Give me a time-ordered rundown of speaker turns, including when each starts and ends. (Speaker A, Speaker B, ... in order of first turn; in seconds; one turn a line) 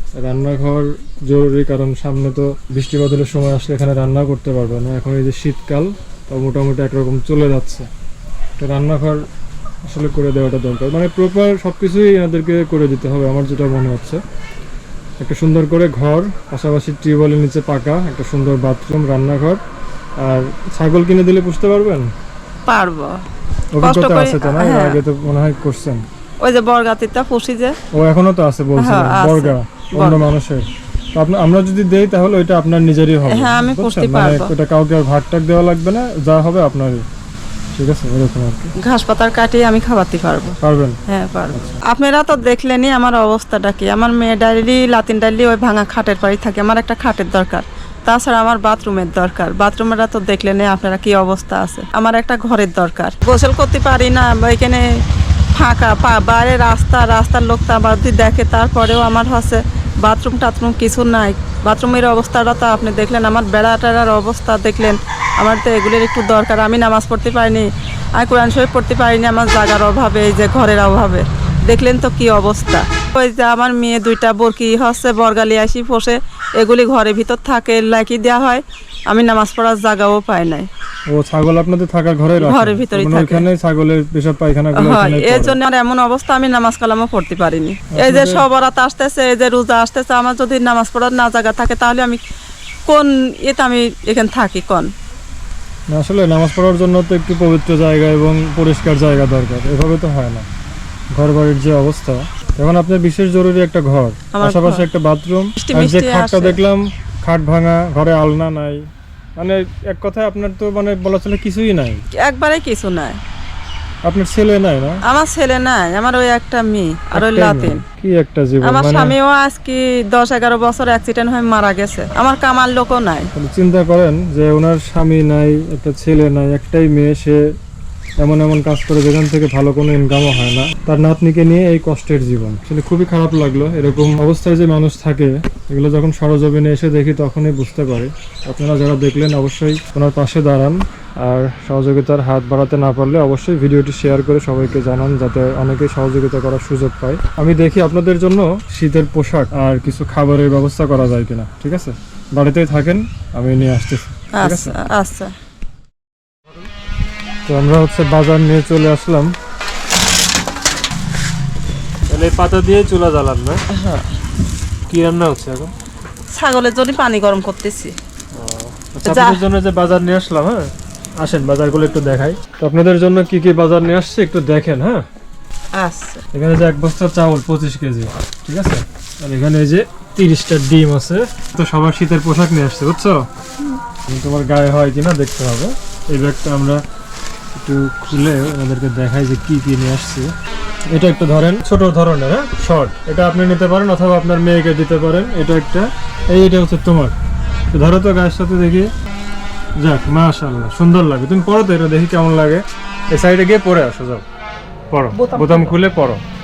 Speaker A: 0.2-7.9
Speaker A: 8.6-9.2
Speaker A: 9.8-14.2
Speaker A: 15.2-19.6
Speaker A: 20.2-22.1
Speaker B: 22.7-23.2
Speaker A: 23.7-26.0
Speaker B: 23.8-25.0
Speaker B: 26.4-27.8
Speaker A: 27.9-37.0
Speaker B: 28.8-30.3
Speaker B: 33.3-34.5
Speaker A: 37.7-38.7
Speaker B: 38.8-54.9
Speaker A: 40.6-41.0
Speaker B: 55.5-80.7
Speaker A: 81.1-85.6
Speaker B: 82.4-83.5
Speaker B: 84.8-92.2
Speaker A: 87.9-88.4
Speaker B: 92.9-94.9
Speaker A: 95.9-100.5
Speaker A: 101.1-108.8
Speaker B: 104.3-104.9
Speaker B: 105.6-106.6
Speaker A: 109.4-112.0
Speaker B: 112.2-113.2
Speaker A: 114.0-115.0
Speaker B: 115.0-117.8
Speaker A: 117.1-119.1
Speaker B: 118.6-123.3
Speaker A: 123.3-127.4
Speaker A: 128.2-154.8
Speaker B: 154.4-155.3
Speaker A: 157.4-159.3
Speaker A: 162.1-163.6
Speaker B: 163.7-164.1
Speaker A: 164.9-165.7
Speaker B: 166.3-167.9
Speaker A: 168.3-175.0
Speaker B: 169.0-169.4
Speaker B: 175.8-176.2
Speaker A: 176.3-183.2
Speaker A: 184.1-186.8
Speaker A: 187.5-190.3
Speaker A: 190.9-197.1
Speaker A: 197.7-198.9
Speaker A: 199.8-204.2
Speaker A: 204.9-206.2
Speaker B: 205.1-205.8